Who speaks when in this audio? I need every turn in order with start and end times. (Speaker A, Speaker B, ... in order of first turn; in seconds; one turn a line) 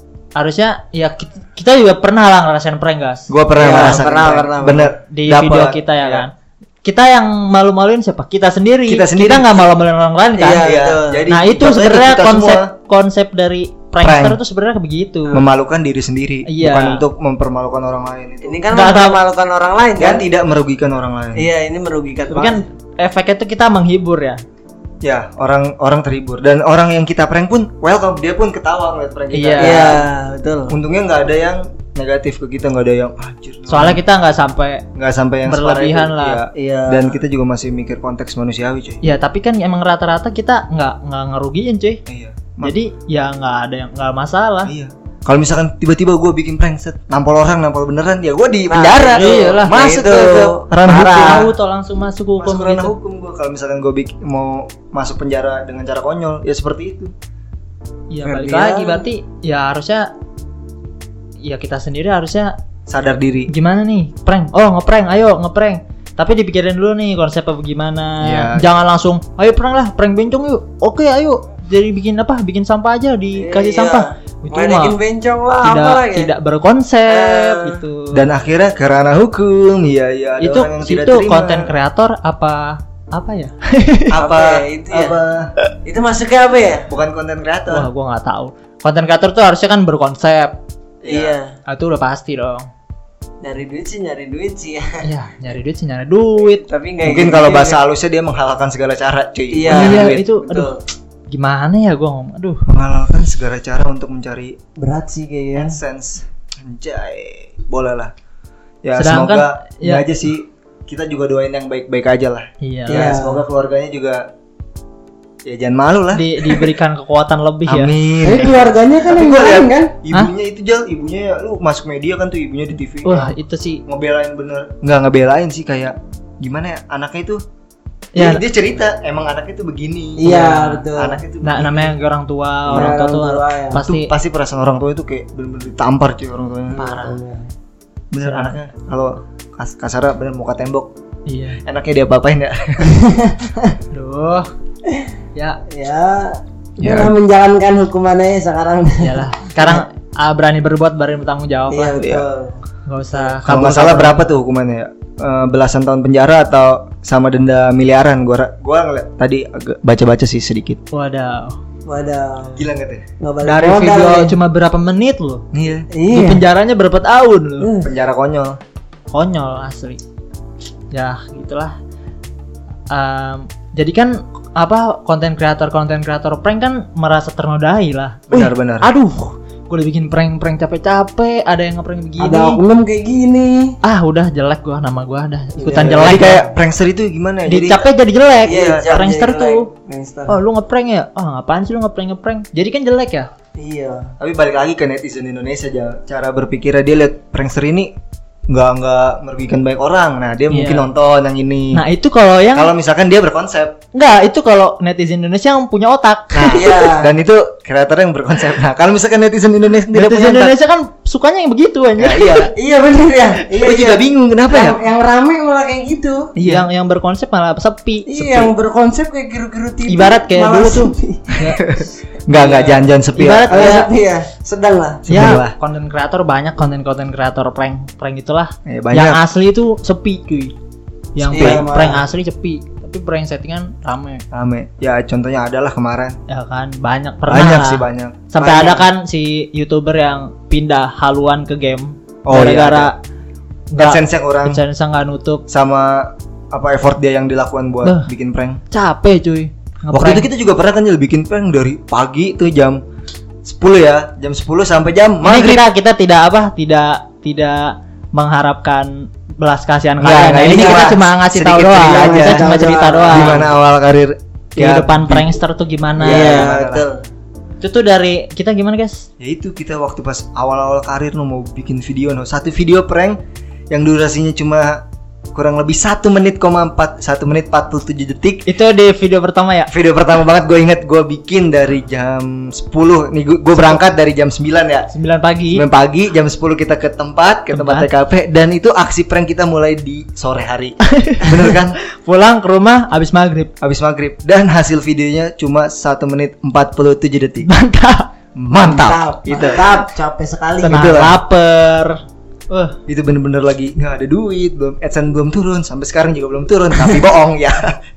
Speaker A: 0.4-4.0
Speaker B: 3.3-6.2
Speaker C: 3.5-5.0
Speaker A: 5.1-6.3
Speaker A: 6.8-10.7
Speaker B: 8.9-9.8
Speaker C: 10.4-11.3
Speaker B: 10.6-12.7
Speaker A: 11.3-15.5
Speaker B: 14.0-14.4
Speaker B: 15.3-18.7
Speaker A: 16.5-17.1
Speaker C: 18.4-20.2
Speaker A: 18.7-19.2
Speaker B: 20.0-21.5
Speaker C: 21.4-22.6
Speaker A: 22.3-24.4
Speaker B: 25.0-30.0
Speaker A: 29.3-30.0
Speaker C: 29.6-30.8
Speaker B: 30.7-34.0
Speaker A: 33.7-34.9
Speaker B: 35.0-39.0
Speaker A: 35.5-36.4
Speaker C: 36.5-37.2
Speaker A: 39.0-42.0
Speaker B: 42.1-42.8
Speaker A: 42.6-44.7
Speaker B: 44.7-51.5
Speaker C: 48.7-51.5
Speaker A: 49.1-49.8
Speaker A: 50.9-52.9
Speaker B: 52.4-57.1
Speaker A: 58.1-60.1
Speaker C: 58.2-59.1
Speaker A: 61.4-62.5
Speaker B: 62.9-63.5
Speaker A: 63.5-75.0
Speaker B: 68.2-68.7
Speaker C: 73.4-76.3
Speaker A: 75.6-78.3
Speaker C: 77.1-77.8
Speaker B: 78.1-81.7
Speaker A: 80.4-84.1
Speaker B: 84.1-85.5
Speaker C: 84.2-85.2
Speaker C: 85.8-86.9
Speaker B: 86.9-87.9
Speaker A: 87.7-90.6
Speaker B: 91.0-91.4
Speaker C: 91.1-91.5
Speaker A: 91.7-92.7
Speaker C: 93.4-95.0
Speaker A: 95.0-96.6
Speaker C: 96.4-97.8
Speaker B: 97.0-100.3
Speaker C: 99.5-100.8
Speaker A: 99.7-100.7
Speaker A: 101.3-102.7
Speaker B: 102.7-104.6
Speaker C: 104.8-105.8
Speaker B: 105.6-108.1
Speaker B: 108.8-114.2
Speaker A: 109.0-110.0
Speaker A: 112.6-113.1
Speaker C: 112.9-113.5
Speaker B: 115.5-116.5
Speaker A: 116.1-118.0
Speaker B: 117.7-123.3
Speaker C: 118.2-119.9
Speaker A: 123.0-123.8
Speaker B: 123.9-127.4
Speaker A: 128.1-128.4
Speaker B: 128.2-131.9
Speaker C: 130.2-131.2
Speaker A: 130.2-130.8
Speaker A: 131.4-134.1
Speaker C: 132.7-133.8
Speaker B: 132.7-133.0
Speaker B: 133.8-136.9
Speaker C: 136.7-137.5
Speaker A: 136.8-137.2
Speaker B: 138.1-140.9
Speaker A: 138.2-138.6
Speaker A: 141.3-141.6
Speaker B: 141.6-142.9
Speaker C: 142.8-143.7
Speaker A: 143.9-144.5
Speaker A: 145.3-145.6
Speaker C: 145.7-149.8
Speaker B: 146.8-147.1
Speaker A: 149.0-152.0
Speaker C: 151.7-152.6
Speaker A: 152.9-154.3
Speaker B: 153.4-160.8
Speaker A: 160.9-161.6
Speaker C: 161.9-162.7
Speaker B: 162.6-163.1
Speaker C: 163.2-164.4
Speaker A: 163.4-165.4
Speaker B: 165.5-165.9
Speaker C: 165.9-166.5
Speaker A: 166.1-167.7
Speaker C: 167.6-167.9
Speaker B: 167.8-168.6
Speaker A: 169.1-170.0
Speaker A: 170.9-171.8
Speaker A: 172.9-182.6
Speaker B: 178.3-178.9
Speaker C: 182.2-183.8
Speaker A: 183.8-186.5
Speaker C: 185.6-186.4
Speaker B: 185.7-187.9
Speaker A: 187.5-189.7
Speaker C: 188.5-190.4
Speaker B: 188.5-189.0
Speaker A: 190.3-193.3
Speaker C: 193.6-194.1
Speaker B: 194.2-197.9
Speaker B: 198.5-201.8
Speaker A: 200.5-200.9
Speaker A: 201.7-202.7
Speaker B: 202.5-203.8
Speaker A: 203.9-206.6
Speaker B: 206.3-210.5
Speaker C: 206.5-207.1
Speaker A: 209.9-212.5
Speaker B: 212.0-212.5
Speaker C: 212.6-216.3
Speaker B: 213.5-214.8
Speaker B: 216.4-216.7
Speaker A: 216.4-218.1
Speaker C: 218.1-221.4
Speaker B: 218.2-218.5
Speaker A: 219.9-221.7
Speaker B: 221.4-223.8
Speaker C: 222.3-225.4
Speaker A: 223.2-223.9
Speaker B: 225.1-225.6
Speaker A: 225.1-230.5
Speaker B: 228.7-229.2
Speaker A: 231.2-234.2
Speaker C: 231.3-232.1
Speaker B: 231.3-231.7
Speaker B: 234.3-236.2
Speaker A: 236.3-243.0
Speaker B: 237.3-238.8
Speaker C: 238.4-238.8
Speaker B: 242.2-242.9
Speaker A: 243.7-245.4
Speaker B: 243.8-244.6
Speaker B: 245.5-248.6
Speaker A: 247.8-248.1
Speaker A: 248.7-250.3
Speaker B: 249.9-252.8
Speaker B: 253.4-255.6
Speaker A: 255.2-263.4
Speaker B: 260.0-265.3
Speaker C: 260.4-260.9
Speaker C: 261.7-263.5
Speaker A: 264.6-266.5
Speaker B: 266.0-266.9
Speaker C: 266.0-267.0
Speaker A: 267.6-269.1
Speaker B: 269.2-273.2
Speaker B: 273.7-278.5
Speaker A: 278.5-279.7
Speaker B: 279.7-284.9
Speaker A: 284.9-285.7
Speaker B: 285.5-291.8
Speaker A: 287.5-287.9
Speaker A: 290.8-293.5
Speaker B: 293.6-297.5
Speaker A: 297.4-298.1
Speaker B: 298.4-299.6
Speaker C: 298.6-300.9
Speaker A: 299.3-299.9
Speaker A: 300.6-302.0
Speaker B: 300.7-301.2
Speaker A: 302.5-302.8
Speaker B: 302.9-307.8